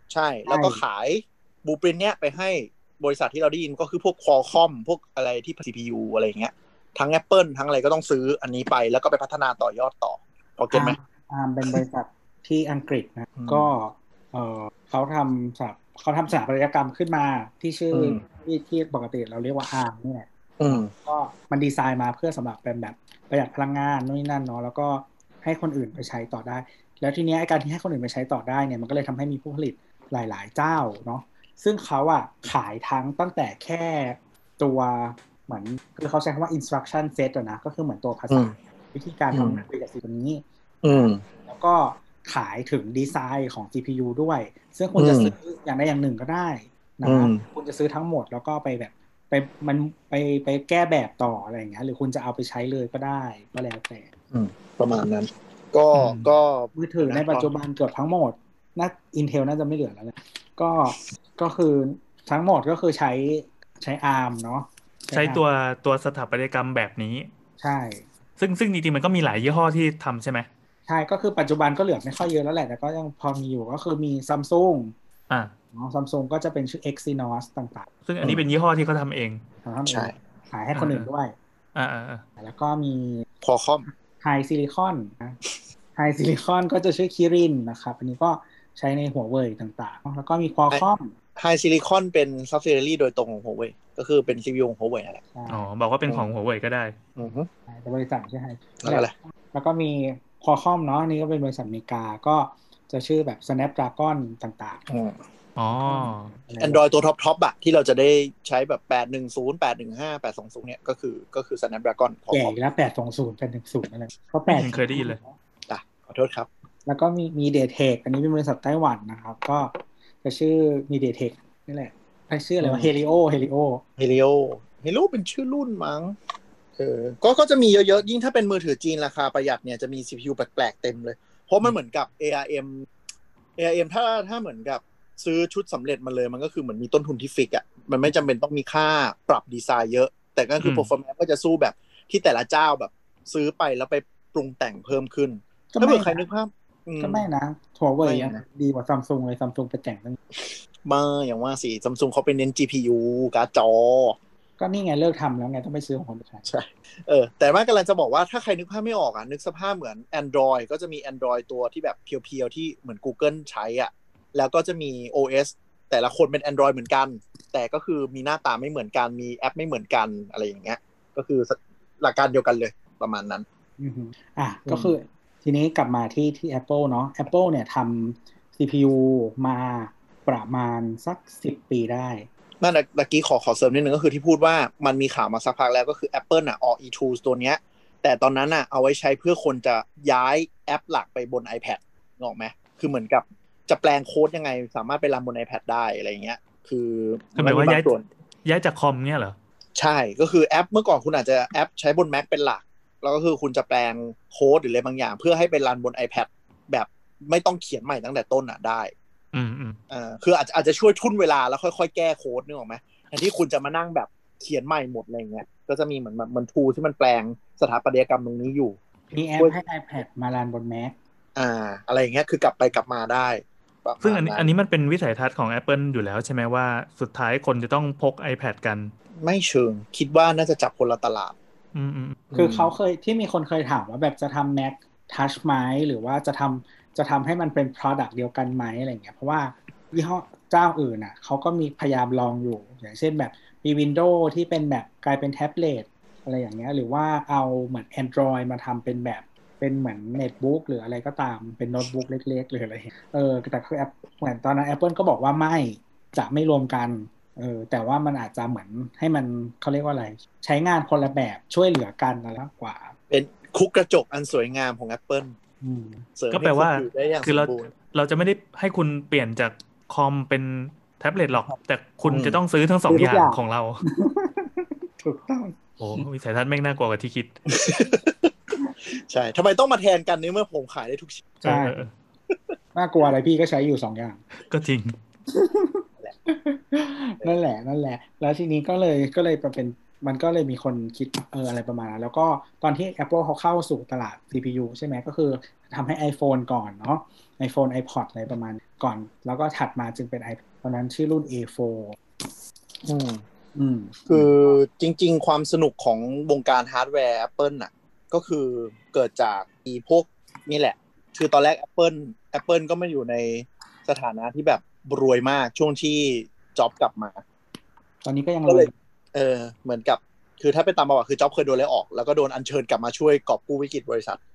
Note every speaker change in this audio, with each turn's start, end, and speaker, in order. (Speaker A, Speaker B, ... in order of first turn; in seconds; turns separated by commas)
Speaker A: 0.1-11.0, Speaker B: 0.5-0.8, Speaker B: 10.7-54.1, Speaker A: 13.4-13.7, Speaker A: 17.9-18.2, Speaker A: 20.6-20.9, Speaker A: 39.3-39.6, Speaker A: 40.8-41.2, Speaker A: 45.0-45.3, Speaker A: 47.0-47.4, Speaker A: 54.3-57.5, Speaker C: 55.9-56.3, Speaker B: 56.8-65.4, Speaker C: 65.1-67.3, Speaker B: 67.6-68.1, Speaker C: 68.4-70.5, Speaker B: 70.9-75.0, Speaker B: 75.7-77.9, Speaker C: 78.1-79.4, Speaker B: 79.6-81.3, Speaker A: 79.9-80.1, Speaker C: 80.8-81.1, Speaker C: 81.8-82.2, Speaker B: 82.4-83.3, Speaker A: 83.4-83.9, Speaker B: 83.9-85.4, Speaker B: 86.0-91.1, Speaker A: 91.4-95.2, Speaker B: 95.3-95.7, Speaker C: 95.5-97.0, Speaker A: 97.2-97.5, Speaker B: 97.7-104.8, Speaker A: 98.8-99.1, Speaker A: 104.9-105.2, Speaker C: 105.6-106.3, Speaker B: 105.9-106.8, Speaker A: 106.6-112.5, Speaker B: 112.3-115.3, Speaker C: 114.5-115.2, Speaker A: 115.7-116.5, Speaker B: 116.9-123.8, Speaker A: 122.6-122.9, Speaker A: 124.0-126.2, Speaker A: 126.8-132.9, Speaker A: 133.6-147.3, Speaker C: 140.6-140.9, Speaker B: 145.7-146.2, Speaker B: 147.0-150.2, Speaker A: 148.0-148.4, Speaker A: 150.4-154.2, Speaker B: 154.6-156.5, Speaker A: 156.5-173.4, Speaker B: 173.8-182.3, Speaker A: 174.7-174.9, Speaker A: 182.6-198.1, Speaker C: 197.4-197.9, Speaker C: 198.4-199.4, Speaker A: 199.8-208.9, Speaker C: 209.3-209.8, Speaker A: 209.9-218.8, Speaker B: 219.1-221.0, Speaker A: 221.4-224.5, Speaker C: 224.0-228.9, Speaker A: 229.2-231.3, Speaker C: 231.8-232.2, Speaker A: 232.3-232.7, Speaker B: 232.3-262.9, Speaker A: 263.1-265.4, Speaker B: 265.6-266.1, Speaker A: 266.2-267.7, Speaker C: 266.3-273.8, Speaker A: 272.0-272.4, Speaker B: 272.9-275.6, Speaker C: 275.8-277.3, Speaker A: 277.5-278.3, Speaker A: 278.9-281.3, Speaker C: 281.4-281.9, Speaker B: 281.4-281.8, Speaker B: 282.8-284.2, Speaker C: 284.5-285.0, Speaker B: 285.3-302.0, Speaker A: 302.8-303.2, Speaker B: 303.6-304.3, Speaker A: 304.1-317.2, Speaker B: 318.1-318.7, Speaker A: 318.5-324.2